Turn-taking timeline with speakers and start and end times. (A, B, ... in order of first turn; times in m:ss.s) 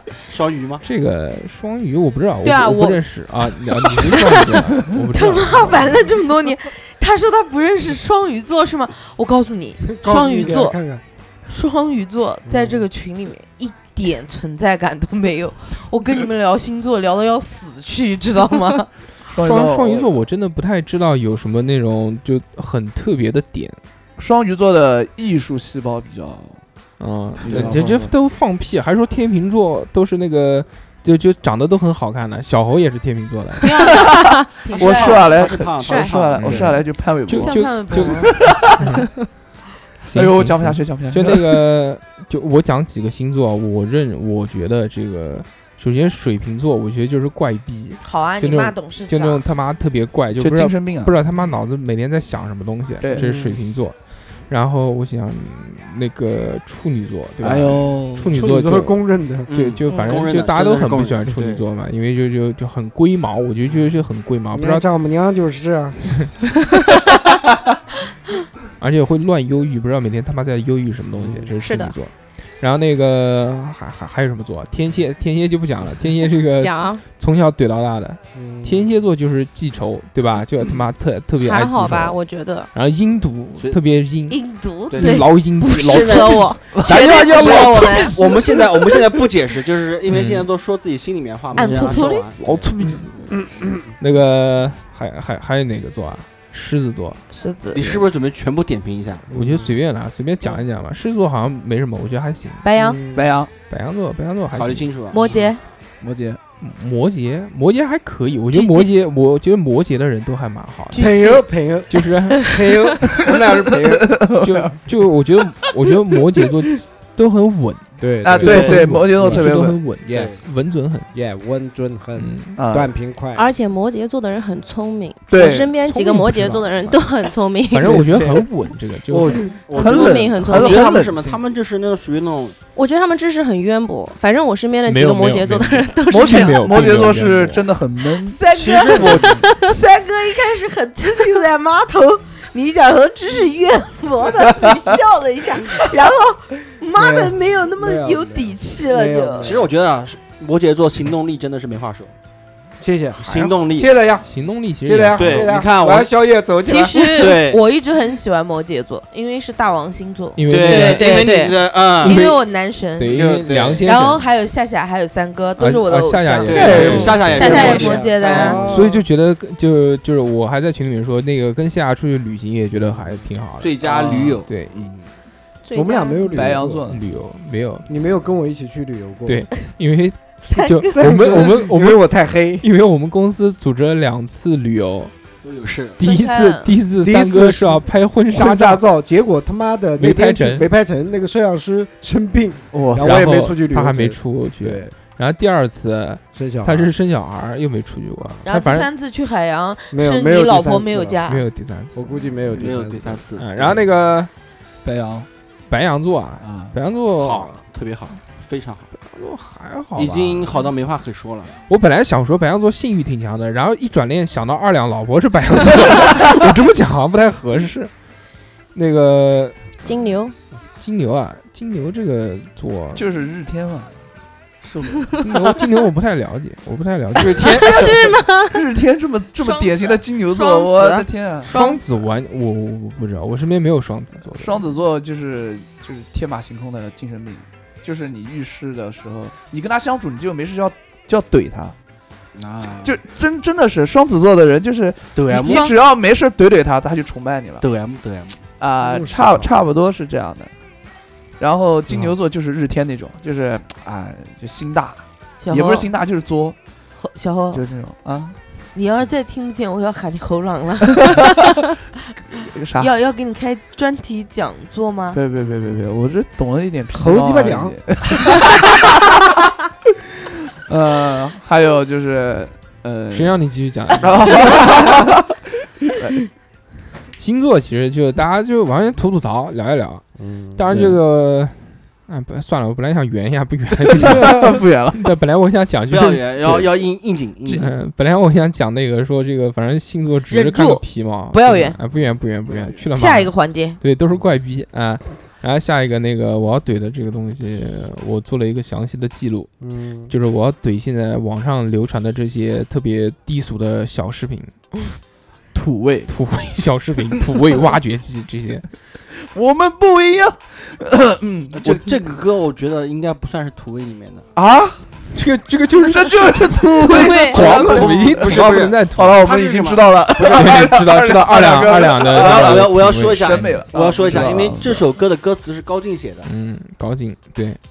0:00.3-0:00.8 A
0:00.8-0:06.1 B
0:02.4-0:03.0 C
0:03.9-0:04.4 C
0:05.1-0:10.8 C
0:09.8-0:11.0 D
0:11.4-0:18.9 C
0:12.4-0:12.9 D
0:19.3-0:20.1 E
0:19.4-0:23.8 B
0:24.2-0:26.6 E
0:27.0-0:33.7 B
0:27.4-0:28.1 E
0:27.5-0:27.8 A
0:33.6-0:35.3 C
0:34.1-0:38.7 E
0:34.8-0:36.7 A
0:35.8-0:36.1 F
0:36.4-0:39.1 B
0:37.3-0:38.4 C
0:40.0-1:04.9 B
0:40.1-0:41.6 E
0:48.0-0:49.4 C
0:50.4-0:51.2 E
0:53.1-0:53.6 D
0:57.4-0:58.3 E
0:58.3-0:59.5 D
0:59.5-1:01.6 A
0:59.9-1:00.2 F
1:03.7-1:04.0 D
1:04.5-1:06.3 D
1:08.8-1:22.2 B
1:11.2-1:11.5 D
1:11.6-1:12.0 F
1:16.6-1:17.0 F
1:18.4-1:18.9 D
1:21.4-1:22.7 F
1:22.7-1:24.4 B
1:24.3-1:27.8 C
1:24.9-1:32.7 A
1:24.9-1:28.2 B
1:26.2-1:28.2 F
1:30.1-1:30.4 B
1:31.6-1:32.3 C
1:31.8-1:33.1 B
1:33.3-1:33.9 D
1:34.0-1:37.2 B
1:37.3-1:38.0 C
1:37.7-1:39.2 A
1:39.3-1:39.7 D
1:39.3-1:42.6 B
1:42.6-1:43.0 C
1:42.8-1:43.4 D
1:43.1-1:43.5 E
1:43.7-1:44.9 B
1:44.5-1:45.4 A
1:45.1-1:45.6 C
1:46.0-1:46.4 E
1:46.6-1:51.1 B
1:48.5-1:48.9 C
1:50.9-1:51.5 C
1:51.0-1:53.4 D
1:51.9-1:52.5 B
1:53.2-1:54.1 A
1:54.0-1:54.7 E
1:54.4-2:01.1 B
1:58.0-2:00.5 D
1:58.2-1:59.8 E
1:58.4-1:58.9 A
2:00.1-2:00.4 A
2:01.1-2:03.5 D
2:02.2-2:02.6 B
2:02.6-2:02.9 E
2:03.4-2:08.1 F
2:05.3-2:05.7 E
2:05.8-2:07.0 B
2:07.7-2:09.4 B
2:07.9-2:08.3 D
2:09.1-2:09.5 D
2:09.6-2:12.6 A
2:09.7-2:11.4 E
2:09.7-2:10.9 F
2:12.7-2:16.7 F
2:14.9-2:17.6 B
2:16.1-2:18.4 E
2:18.2-2:29.5 C
2:18.5-2:19.4 A
2:19.3-2:19.8 F
2:27.0-2:29.7 D
2:29.4-2:32.1 A
2:32.8-2:34.3 D
2:33.2-2:33.9 A
2:34.2-2:35.4 B
2:34.8-2:37.4 D
2:35.2-2:36.1 A
2:36.6-2:41.3 C
2:37.2-2:37.6 A
2:40.4-2:41.3 B
2:40.5-2:42.2 A
2:40.6-2:41.6 F
2:42.0-2:48.6 C
2:42.0-2:44.2 B
2:43.1-2:43.9 A
2:45.6-2:47.9 B
2:46.4-2:48.6 A
2:46.5-2:49.0 D
2:46.7-2:47.2 F
2:48.6-2:54.8 B
2:53.6-2:55.1 A
2:55.6-2:56.5 F
2:55.7-2:56.9 D
2:56.3-2:57.0 E
2:56.9-2:57.9 B
2:57.9-2:59.4 D
2:59.2-3:05.1 B
3:00.5-3:00.9 C
3:00.9-3:02.6 D
3:05.4-3:06.0 A
3:06.0-3:08.8 B
3:06.0-3:06.8 C
3:07.0-3:14.9 D
3:10.0-3:10.7 B
3:12.7-3:13.2 E
3:13.0-3:18.9 B
3:16.3-3:16.9 D
3:18.4-3:21.4 C
3:19.9-3:21.2 D
3:21.3-3:24.3 B
3:21.9-3:23.2 D
3:22.5-3:23.8 A
3:24.8-3:25.3 E
3:25.7-3:27.6 B
3:26.4-3:26.7 E
3:27.2-3:28.9 A
3:29.0-3:30.6 B
3:30.0-3:31.6 A
3:31.7-3:37.9 B
3:38.7-3:39.6 B
3:39.8-3:40.4 F
3:40.8-3:43.0 B
3:43.0-3:44.0 E
3:44.6-3:45.2 A
3:45.2-3:47.5 B
3:47.2-3:48.1 A
3:47.6-3:48.6 F
3:48.5-3:51.5 E
3:49.4-3:51.8 C
3:51.4-3:54.6 B
3:54.3-4:01.7 E
4:02.4-4:03.0 A
4:02.8-4:07.6 E
4:05.2-4:05.7 A
4:05.4-4:05.8 C
4:07.6-4:08.4 A
4:08.6-4:10.5 E
4:08.8-4:09.5 D
4:11.4-4:16.6 E
4:15.4-4:15.9 C
4:17.0-4:17.6 C
4:17.5-4:18.4 E
4:18.7-4:21.2 C
4:22.4-4:22.9 E
4:22.8-4:25.2 C
4:25.1-4:29.0 E
4:26.9-4:27.8 D
4:30.7-4:33.4 E
4:33.1-4:34.4 B
4:34.0-4:35.2 E
4:35.9-4:36.2 E
4:37.2-4:46.7 B
4:40.2-4:40.9 D
4:40.7-4:41.0 E
4:43.9-4:45.1 E
4:44.2-4:44.5 D
4:45.9-4:47.7 A
4:47.6-4:59.5 B
4:50.3-4:51.8 C
4:52.9-4:53.8 C
4:59.6-5:00.1 D
5:00.1-5:04.5 B
5:05.5-5:06.1 E
5:06.1-5:08.7 B
5:09.2-5:12.2 E
5:11.5-5:14.3 A
5:14.4-5:14.8 E
5:15.1-5:19.3 B
5:15.8-5:18.4 E
5:16.9-5:17.5 F
5:17.4-5:26.3 A
5:19.0-5:24.8 E
5:20.3-5:23.6 B
5:24.1-5:24.5 B
5:26.2-5:27.6 B